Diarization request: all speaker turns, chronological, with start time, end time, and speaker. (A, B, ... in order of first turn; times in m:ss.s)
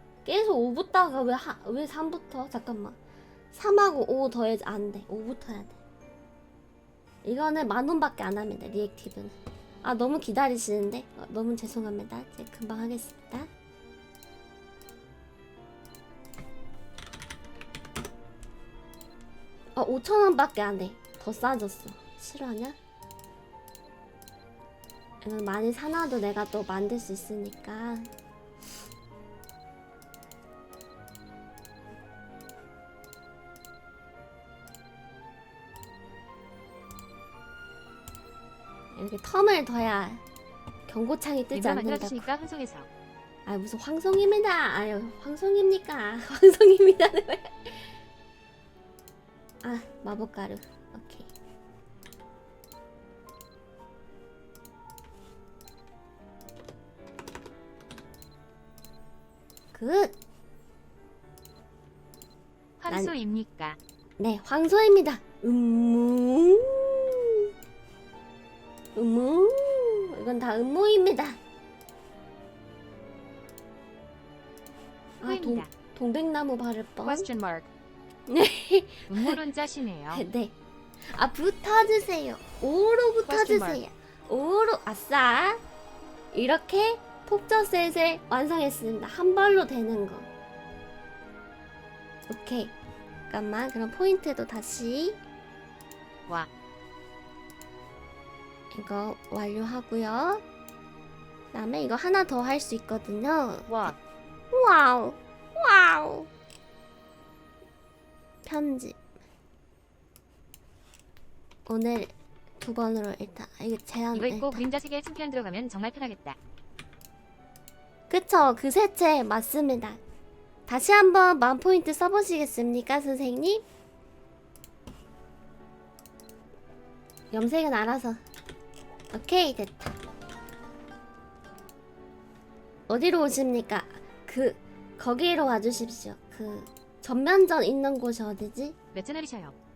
0:00.2-0:03.0 A
0:03.5-0:05.8 A
0:07.2-0:13.5 A
0:19.7-0:22.8 A
0:25.2-0:28.1 A
0:38.9-0:40.2 A
0:40.9-0:42.3 A
0:41.5-0:42.9 B
0:43.4-0:47.9 A
0:49.6-0:51.3 A
0:59.7-1:00.1 A
1:02.8-1:03.8 B
1:02.9-1:03.1 A
1:04.2-1:07.4 A
1:08.9-1:11.4 A
1:15.2-1:17.3 A
1:15.2-1:15.7 B
1:17.0-1:17.7 B
1:18.3-1:19.4 A
1:19.1-1:20.2 B
1:20.1-1:25.6 A
1:23.2-1:23.8 B
1:26.3-1:30.3 A
1:32.3-1:32.7 A
1:33.3-1:35.2 A
1:38.7-1:40.4 A
1:41.5-1:43.7 A
1:43.7-1:44.0 B
1:44.5-1:46.3 A
1:48.4-1:49.0 A
1:51.7-1:54.6 A
1:54.1-1:56.4 B
1:58.1-2:00.0 A
2:00.7-2:03.6 A
2:07.3-2:08.2 A
2:09.1-2:10.0 A
2:12.9-2:18.7 A
2:18.9-2:19.5 B